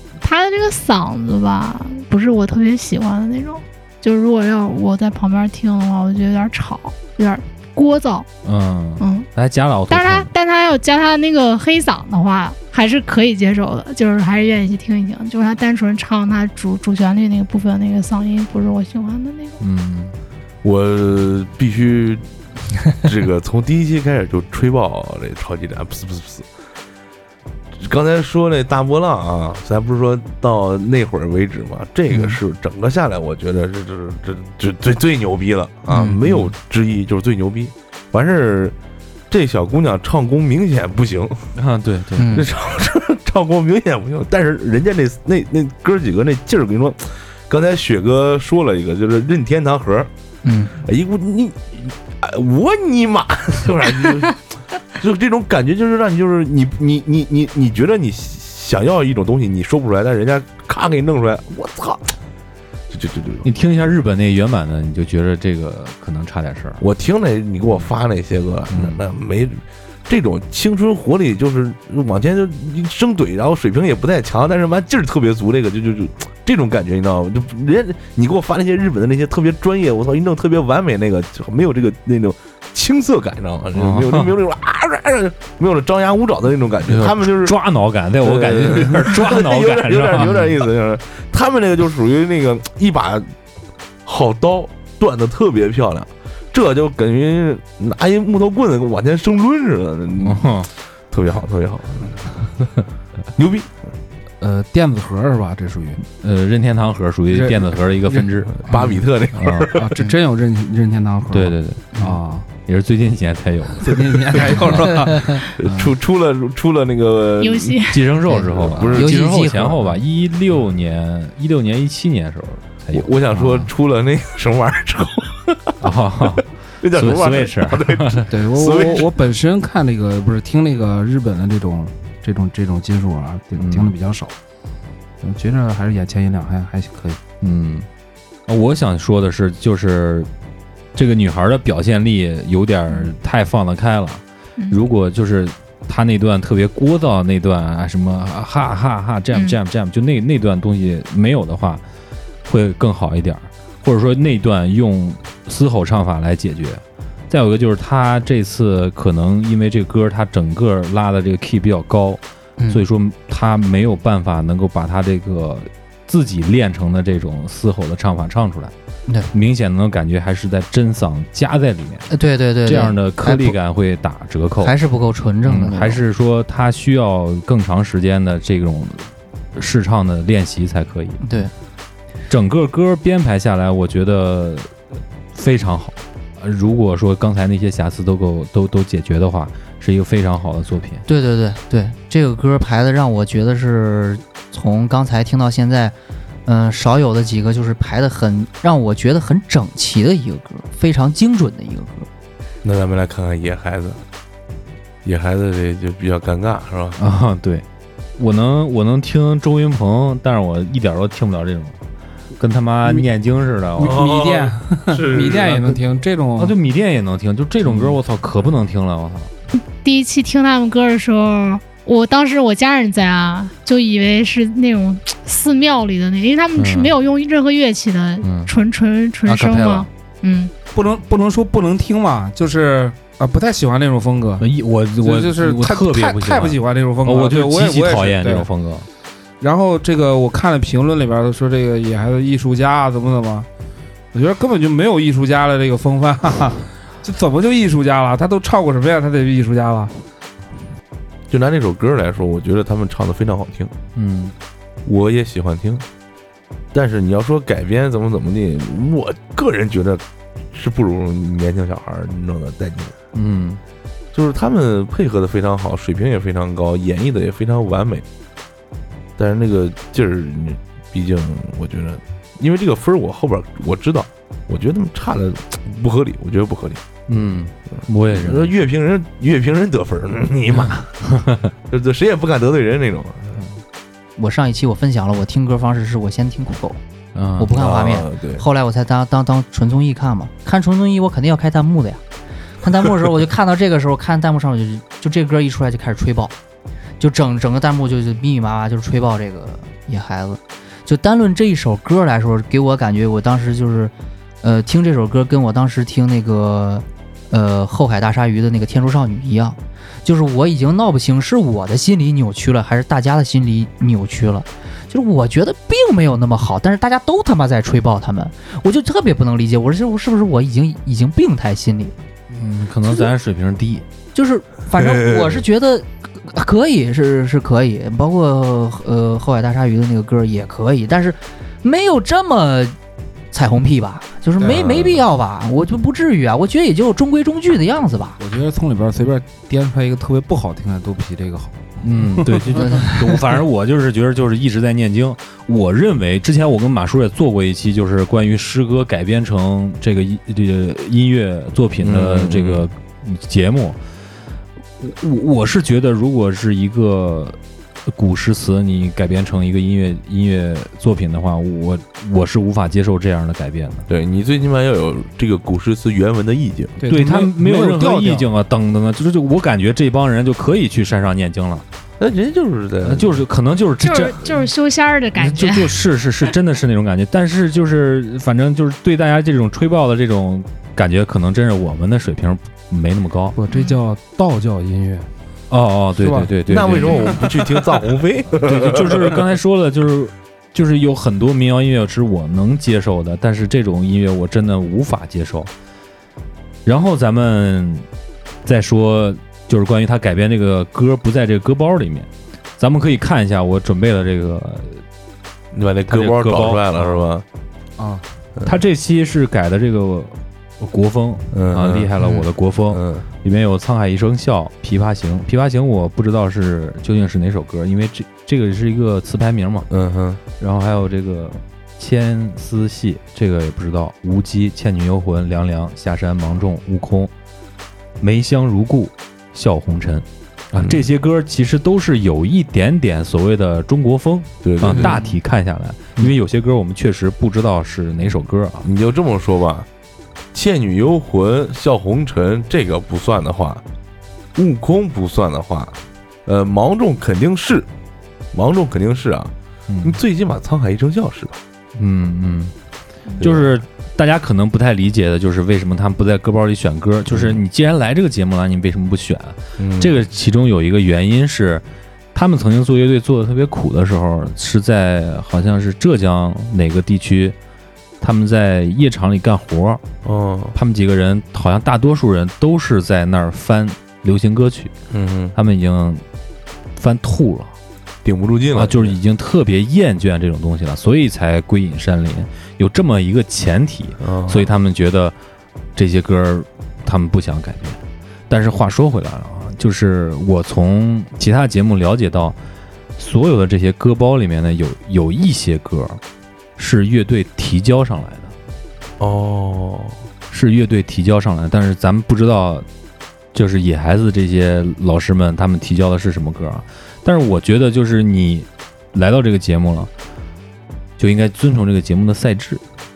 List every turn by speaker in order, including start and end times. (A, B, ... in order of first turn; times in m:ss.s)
0:00.2-0:08.3 A
0:08.4-0:10.3 B
0:09.0-0:09.3 A
0:09.9-0:19.6 A
0:19.6-0:20.2 B
0:20.6-0:22.2 C
0:22.9-0:26.5 C
0:27.8-0:38.8 C
0:32.1-0:32.4 D
0:35.9-0:36.2 D
0:36.2-0:36.5 B
0:39.3-0:41.4 C
0:41.6-0:42.3 B
0:42.2-0:42.5 D
0:42.3-0:50.1 C
0:50.4-0:50.8 D
0:50.8-0:54.4 C
0:55.0-1:02.1 C
1:02.9-1:03.5 C
1:03.4-1:06.8 B
1:06.8-1:27.6 C
1:08.7-1:09.1 B
1:23.8-1:24.4 B
1:26.9-1:30.5 B
1:28.2-1:33.3 C
1:34.0-1:40.5 C
1:40.2-1:40.7 B
1:41.1-1:42.5 C
1:43.4-1:43.8 C
1:44.4-1:46.0 E
1:46.2-1:48.5 B
1:47.3-1:49.0 E
1:48.6-1:50.0 C
1:49.3-1:49.7 B
1:49.7-1:52.5 E
1:51.3-1:51.9 B
1:52.6-1:54.0 B
1:53.8-1:55.9 E
1:55.6-1:57.8 C
1:57.4-1:58.0 A
1:57.9-2:03.1 B
1:58.3-1:59.8 D
1:58.6-1:59.1 C
2:02.9-2:05.8 C
2:03.3-2:03.6 D
2:05.8-2:08.2 B
2:06.8-2:09.1 C
2:08.3-2:14.4 E
2:13.6-2:13.9 B
2:15.2-2:17.2 E
2:17.4-2:17.9 B
2:18.5-2:20.3 B
2:21.0-2:31.8 B
2:32.5-2:48.7 B
2:42.6-2:42.8 D
2:49.3-2:52.1 B
2:52.1-2:53.6 D
2:52.6-2:54.8 B
2:54.6-2:56.0 D
2:55.4-3:01.2 B
3:01.2-3:01.5 D
3:02.3-3:04.8 B
3:05.4-3:11.0 B
3:11.1-3:22.1 D
3:22.6-3:24.0 C
3:25.0-3:27.0 C
3:27.0-3:27.6 B
3:28.2-3:31.8 B
3:32.4-3:34.0 B
3:33.8-3:36.6 E
3:33.8-3:35.8 C
3:36.4-3:39.3 B
3:37.7-3:38.0 E
3:39.5-3:50.5 A
3:46.6-3:46.9 B
3:48.2-3:48.5 B
3:49.3-3:49.9 B
3:50.7-3:54.5 E
3:54.4-3:58.9 B
3:55.0-3:58.5 E
3:59.4-4:03.5 E
4:04.1-4:10.0 E
4:11.3-4:13.7 C
4:14.0-4:14.4 B
4:14.9-4:15.8 C
4:16.7-4:23.0 C
4:23.1-4:23.6 B
4:24.1-4:28.0 C
4:29.2-4:36.8 C
4:37.1-4:38.6 B
4:38.1-4:40.9 C
4:40.5-4:41.5 B
4:41.7-4:43.4 C
4:44.2-4:46.8 D
4:47.2-4:47.5 B
4:47.4-4:52.0 D
4:47.5-4:48.4 C
4:52.6-4:56.3 D
4:57.0-5:22.0 D
5:22.3-5:23.9 B
5:22.8-5:23.1 D
5:24.1-5:32.8 D
5:24.8-5:25.4 C
5:33.3-5:38.2 D
5:34.4-5:34.6 E
5:34.4-5:35.0 C
5:38.2-5:42.6 E
5:41.8-5:53.8 B
5:42.5-5:43.0 D
5:51.8-5:52.7 C
5:54.8-5:57.4 B
5:57.9-6:03.9 B
6:03.9-6:06.8 C
6:06.8-6:08.3 E
6:06.9-6:11.6 B
6:12.0-6:13.2 C
6:12.8-6:14.4 B
6:13.8-6:15.8 A
6:15.2-6:23.4 B
6:23.4-6:25.1 E
6:23.5-6:23.8 A
6:25.5-6:27.1 B
6:26.0-6:26.4 E
6:26.5-6:29.2 C
6:26.9-6:27.2 A
6:28.4-6:35.5 B
6:36.6-6:37.9 B
6:38.4-6:44.8 B
6:45.5-6:47.2 C
6:45.9-6:47.0 B
6:47.8-6:48.0 E
6:48.4-6:59.7 B
6:51.3-6:51.9 C
6:52.7-6:53.1 C
6:59.7-7:00.2 C
7:00.4-7:07.1 B
7:08.0-7:18.7 B
7:14.4-7:15.1 C
7:18.6-7:19.7 C
7:20.3-7:23.6 C
7:24.4-7:27.7 C
7:28.3-7:29.3 C
7:29.7-7:30.0 B
7:29.8-7:31.4 C
7:31.8-7:32.5 B
7:33.2-7:33.5 C
7:33.2-7:47.4 B
7:37.1-7:37.4 C
7:39.6-7:40.0 C
7:48.0-7:49.8 B
7:50.0-7:50.6 C
7:50.6-7:54.7 B
7:54.9-7:55.4 C
7:55.4-7:56.0 B
7:56.8-7:57.6 B
7:58.0-7:59.0 C
7:58.5-8:05.2 B
8:04.0-8:04.5 C
8:05.8-8:12.4 B
8:13.0-8:16.0 B
8:16.6-8:18.3 B
8:19.0-8:20.0 C
8:20.3-8:22.7 B
8:23.3-8:29.9 B
8:31.0-8:32.6 B